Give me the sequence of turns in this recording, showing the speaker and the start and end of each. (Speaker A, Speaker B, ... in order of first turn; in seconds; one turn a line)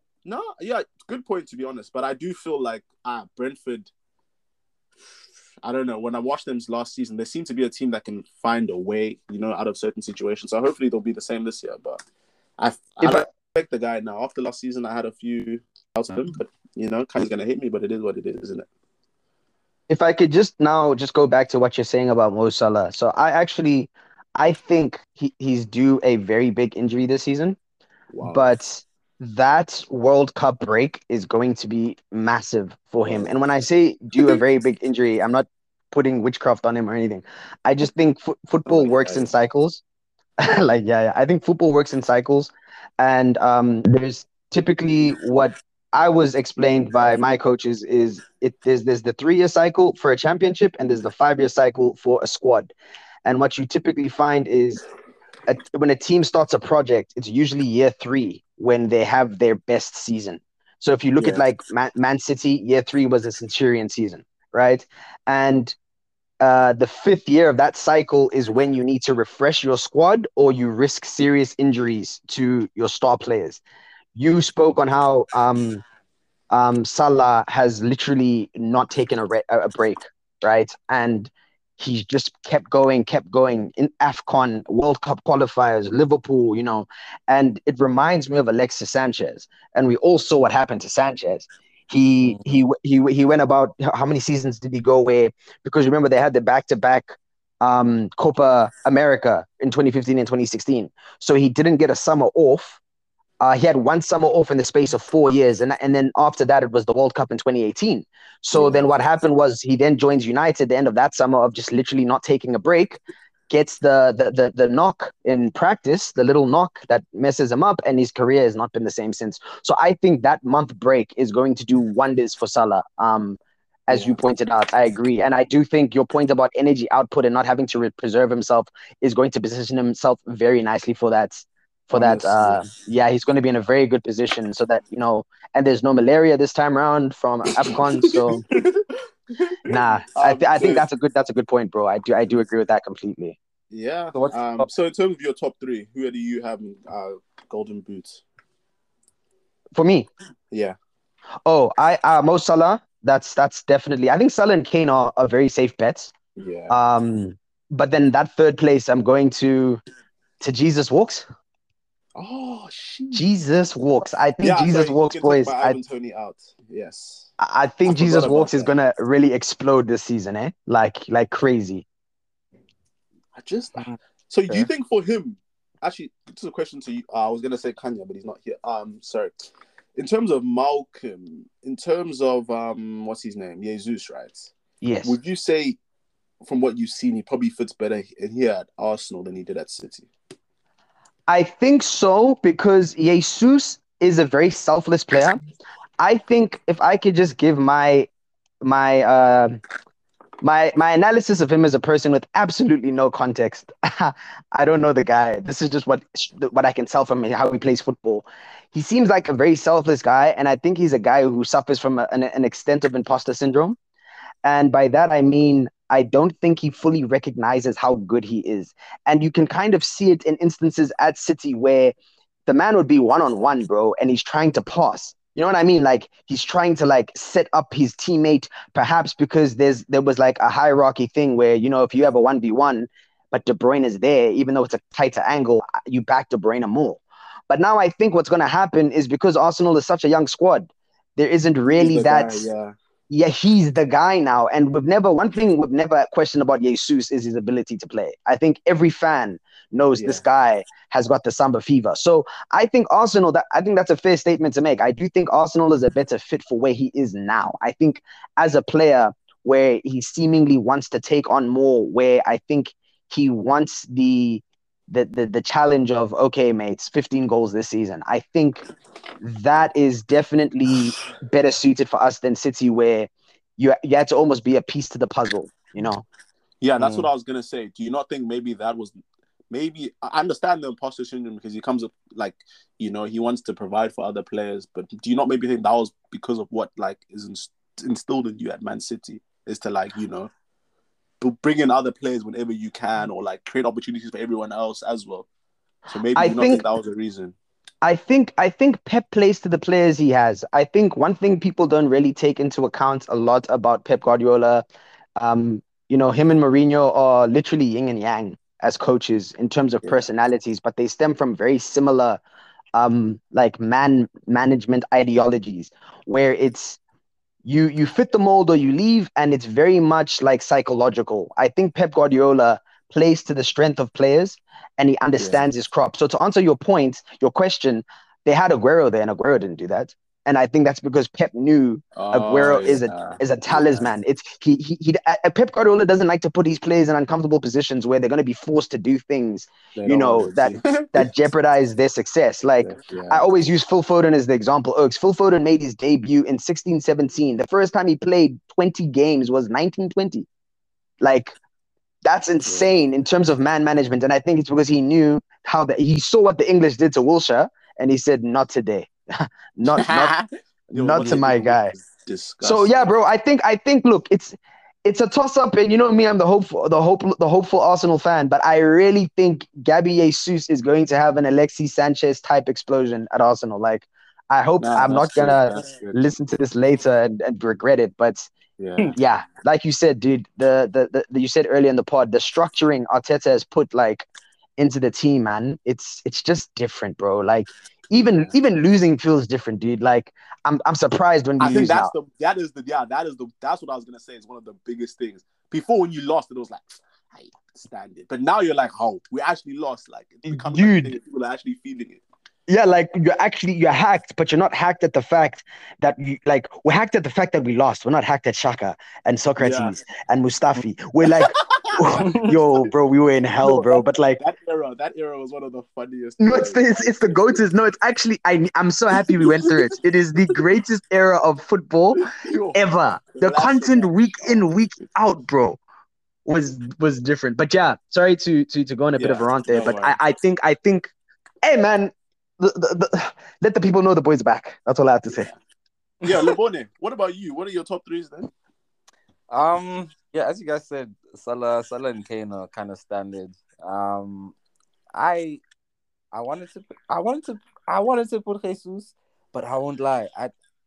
Speaker A: 0.2-3.9
Speaker A: 5.6-12.0
Speaker A: 12.6-18.7
Speaker B: 13.0-13.3
Speaker B: 19.9-27.6
Speaker A: 28.1-28.5
Speaker B: 28.2-39.8
Speaker A: 38.7-39.2
Speaker B: 40.4-52.7
Speaker B: 53.2-54.8
Speaker B: 55.5-65.8
Speaker A: 61.2-61.4
Speaker B: 66.4-73.6
Speaker B: 74.1-75.8
Speaker B: 76.5-102.8
Speaker C: 92.2-92.5
Speaker B: 103.4-138.4
Speaker A: 108.5-108.9
Speaker A: 123.9-124.2
Speaker A: 131.9-132.7
Speaker A: 137.6-140.8
Speaker B: 139.7-143.3
Speaker A: 143.7-148.2
Speaker C: 144.1-144.7
Speaker B: 149.7-150.1
Speaker A: 150.5-150.8
Speaker B: 151.4-156.1
Speaker A: 156.3-156.7
Speaker B: 156.7-159.8
Speaker B: 160.4-161.2
Speaker A: 162.1-163.2
Speaker B: 163.1-165.8
Speaker A: 164.4-167.3
Speaker B: 167.4-171.8
Speaker A: 167.8-168.7
Speaker A: 173.3-184.5
Speaker C: 173.8-174.7
Speaker B: 184.8-185.2
Speaker A: 185.0-185.8
Speaker A: 186.4-190.1
Speaker B: 191.3-195.4
Speaker B: 196.0-198.1
Speaker B: 198.6-199.6
Speaker B: 200.4-213.8
Speaker B: 214.4-221.9
Speaker B: 222.4-242.5
Speaker A: 241.7-242.8
Speaker B: 243.1-268.6
Speaker A: 250.0-250.2
Speaker B: 269.2-276.1
Speaker A: 276.6-278.9
Speaker C: 276.8-277.1
Speaker A: 279.5-290.3
Speaker A: 291.2-295.3
Speaker A: 295.9-297.3
Speaker B: 296.1-296.6
Speaker B: 297.8-304.6
Speaker B: 305.2-312.2
Speaker B: 312.7-316.8
Speaker B: 317.4-350.3
Speaker A: 325.2-325.5
Speaker A: 331.9-333.9
Speaker A: 339.8-341.1
Speaker A: 342.6-343.3
Speaker B: 351.0-351.4
Speaker B: 352.0-360.1
Speaker C: 359.7-360.3
Speaker B: 360.7-361.7
Speaker A: 360.7-362.9
Speaker B: 362.4-378.3
Speaker A: 374.6-376.0
Speaker A: 378.6-378.9
Speaker B: 378.9-391.9
Speaker A: 387.9-388.3
Speaker A: 391.4-402.0
Speaker B: 400.3-400.9
Speaker B: 402.5-414.2
Speaker A: 409.4-409.7
Speaker A: 411.2-412.1
Speaker C: 412.0-412.4
Speaker A: 413.4-417.4
Speaker B: 416.2-425.6
Speaker A: 418.9-419.7
Speaker A: 421.9-422.6
Speaker A: 423.1-424.4
Speaker B: 426.2-430.9
Speaker A: 429.0-430.0
Speaker B: 431.4-435.3
Speaker A: 435.1-435.4
Speaker A: 436.0-438.3
Speaker C: 439.3-444.3
Speaker C: 444.9-445.4
Speaker C: 446.1-450.3